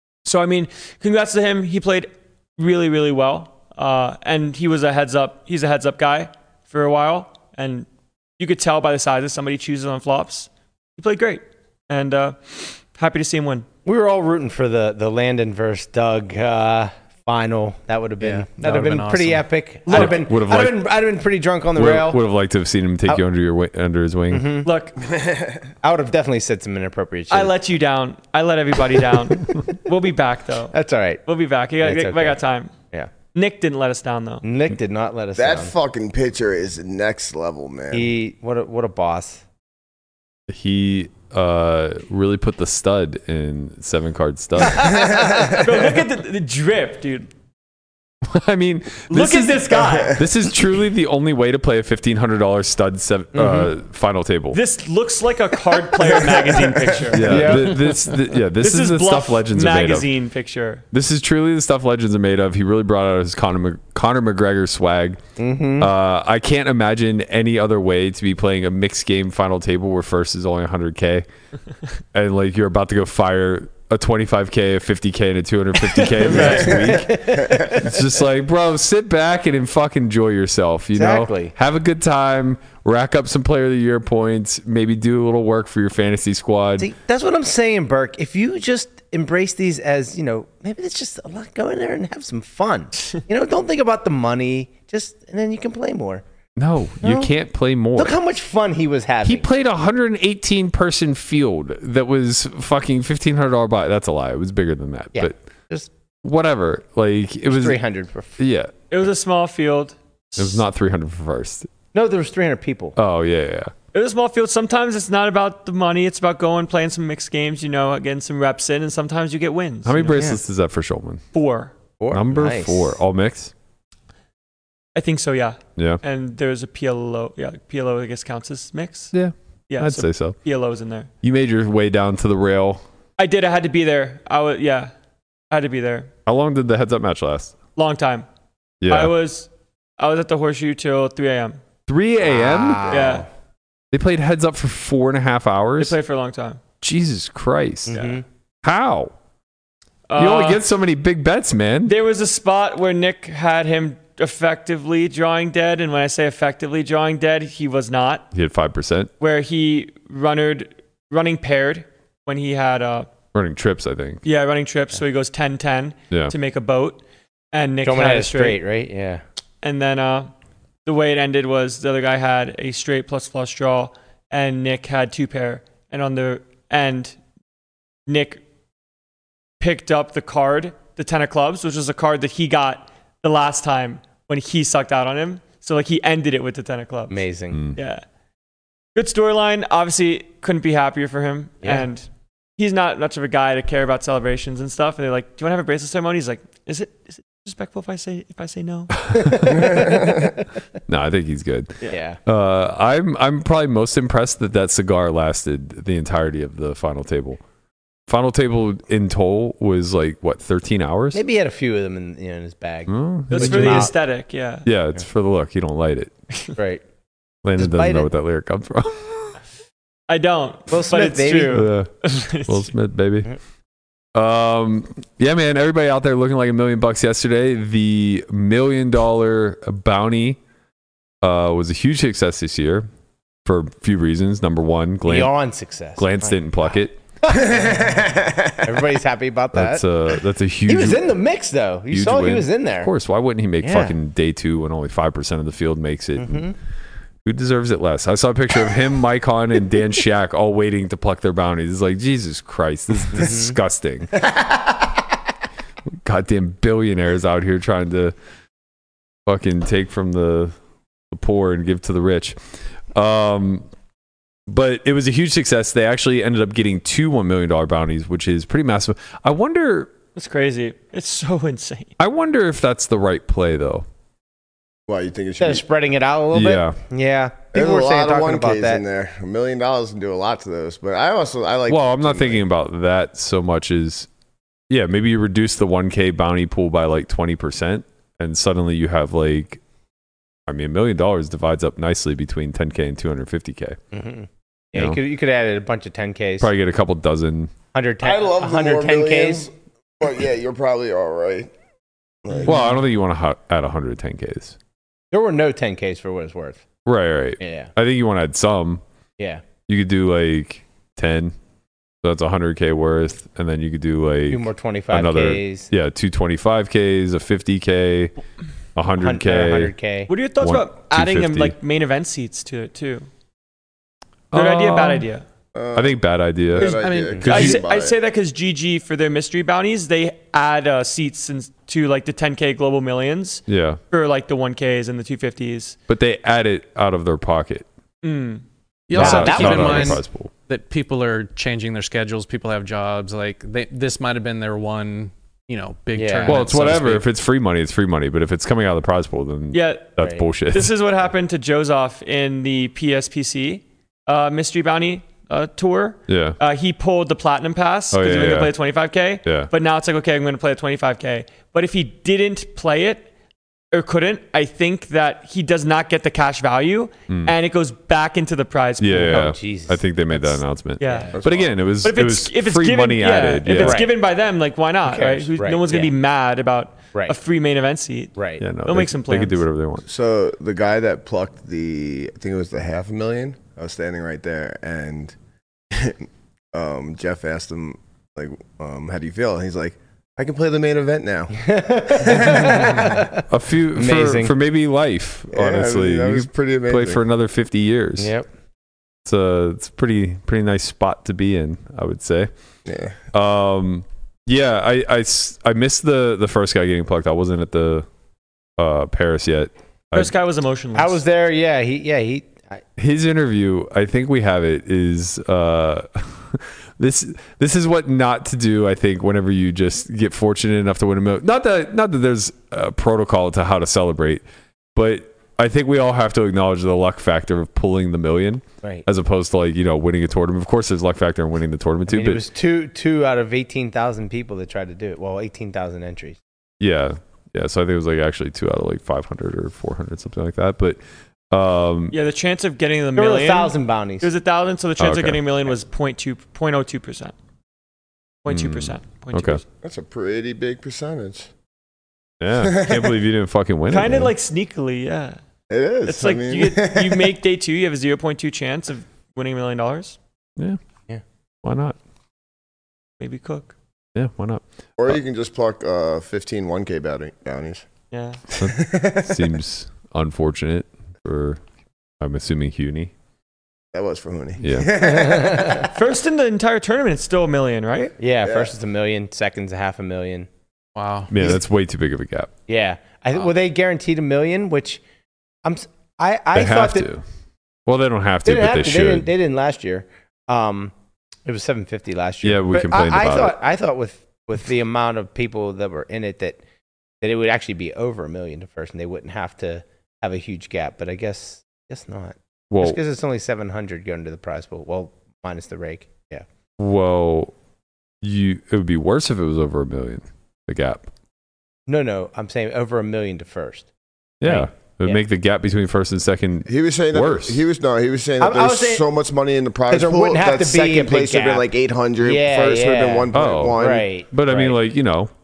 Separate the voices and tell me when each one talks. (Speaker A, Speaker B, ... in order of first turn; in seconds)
Speaker A: 0.2-7.9, 8.4-13.7, 19.9-20.2, 24.6-25.0, 27.3-30.7, 31.3-32.7, 33.3-34.4, 45.5-47.3, 49.1-50.2, 54.5-57.7, 58.6-60.8, 76.2-76.7, 108.9-110.6, 113.9-120.2, 121.3-121.7, 125.0-129.1, 129.7-131.1, 133.2-134.9, 135.5-136.1, 137.8-138.3, 138.9-141.6, 142.9-143.2, 145.8-146.6, 147.9-148.2, 150.1-150.6, 151.9-158.3, 159.2-163.1, 164.2-167.0, 167.5-168.6, 169.6-170.3, 170.8-177.2, 178.1-178.4, 179.6-187.2, 187.8-188.0, 188.9-192.1, 192.6-198.9, 213.3-214.7, 220.1-222.7, 270.2-271.9, 320.1-323.1, 324.3-325.2, 327.2-335.8, 338.0-338.4, 349.5-349.9, 350.5-363.1, 363.7-369.2, 370.8-371.1, 371.8-378.1, 378.6-379.4, 409.9-411.0, 441.9-447.1, 448.2-449.4, 453.7-455.2, 455.9-460.0, 463.0-463.5, 467.9-468.2, 475.7-477.9
Speaker B: 13.8-22.2, 24.3-24.7, 25.8-27.5, 30.7-31.2, 31.8-32.4, 34.4-35.7, 37.9-39.4, 44.7-45.5, 53.3-53.7, 57.2-58.0, 65.4-65.9, 76.3-77.8, 81.0-81.5, 86.8-96.2, 97.0-97.3, 98.0-99.5, 105.2-105.9, 107.5-108.4, 111.9-113.0, 122.0-123.0, 142.2-143.3, 147.9-148.2, 167.8-169.2, 187.1-187.6, 191.6-191.9, 199.3-200.2, 201.9-202.2, 211.1-213.9, 216.6-216.8, 217.6-218.1, 220.7-221.7, 235.1-238.0, 238.6-239.8, 240.7-242.9, 243.6-243.9, 246.2-246.6, 253.1-253.6, 275.4-278.8, 293.9-296.5, 297.7-299.5, 302.3-302.6, 305.1-306.6, 307.4-307.7, 309.2-309.4, 314.3-315.7, 319.0-320.1, 339.0-340.0, 345.9-346.8, 350.0-350.2, 368.9-371.2, 373.6-373.9, 374.9-375.9, 378.2-378.4, 391.3-394.3, 398.0-398.3, 410.8-412.6, 431.9-436.2, 443.0-444.1, 474.8-475.7, 478.0-480.3, 482.5-484.8, 485.4-486.9, 488.2-490.7, 491.3-496.4, 497.0-506.2, 511.7-513.7, 514.2-515.0, 518.2-518.9, 519.7-521.5, 522.0-524.6
Speaker C: 18.2-19.4, 326.6-327.4, 338.9-347.1, 480.8-481.1
Speaker D: 19.9-20.8, 21.8-24.5, 40.5-44.9, 48.3-54.6, 57.1-60.1, 60.9-65.2, 65.8-71.3, 72.1-86.9, 96.6-98.2, 99.2-105.3, 106.2-107.8, 108.4-108.7, 110.4-111.7, 113.0-113.7, 119.9-121.2, 122.1-123.5, 129.1-130.4, 131.2-132.8, 136.3-137.6, 138.8-139.1, 141.9-143.0, 143.9-146.0, 146.8-147.9, 148.6-149.1, 150.2-151.9, 158.3-159.1, 163.3-164.2, 199.0-199.9, 200.9-207.4, 208.1-211.2, 212.9-213.9, 214.7-216.1, 217.4-219.3, 221.5-221.9, 222.5-223.3, 224.2-230.4, 231.2-232.9, 233.4-235.3, 236.0-237.0, 239.5-241.1, 241.9-246.5, 247.2-254.2, 256.1-258.1, 259.3-260.5, 261.1-262.4, 262.9-263.6, 264.5-269.9, 272.0-273.9, 276.3-276.8, 281.7-284.1, 284.7-289.6, 290.5-293.8, 296.4-297.5, 302.4-304.6, 306.9-308.8, 309.7-311.3, 312.0-318.1, 318.8-319.7, 320.4-321.6, 324.3-325.1, 325.7-327.6, 333.5-333.8, 335.9-337.7, 338.9-340.3, 346.3-350.7, 356.1-356.4, 357.9-358.5, 359.2-359.5, 368.8-373.9, 378.4-379.9, 393.3-398.1, 399.1-402.3, 403.1-407.9, 408.6-410.1, 412.8-424.2, 424.8-432.2, 436.6-440.8, 441.3-441.9, 444.8-445.2, 448.3-449.4, 452.2-454.1, 461.4-461.8, 463.9-465.0, 468.4-471.4, 472.0-472.9, 474.4-474.7, 481.1-482.3, 486.4-487.0, 487.7-489.1, 492.2-493.4, 502.5-502.8, 506.6-507.3, 508.0-510.9, 514.2-517.4, 523.1-525.1
Speaker E: 25.0-25.6, 35.4-38.1, 45.0-45.5, 77.4-77.7, 237.3-238.7, 274.9-275.6, 277.5-282.4, 298.0-301.5, 302.2-302.6, 325.5-326.0, 326.5-328.0, 371.2-371.5, 379.9-385.1, 385.7-393.0, 395.3-397.0, 402.7-403.0, 449.6-451.3, 452.4-452.9, 455.5-457.1, 464.8-467.7, 468.4-469.2, 473.7-475.7, 478.2-478.5, 516.5-523.9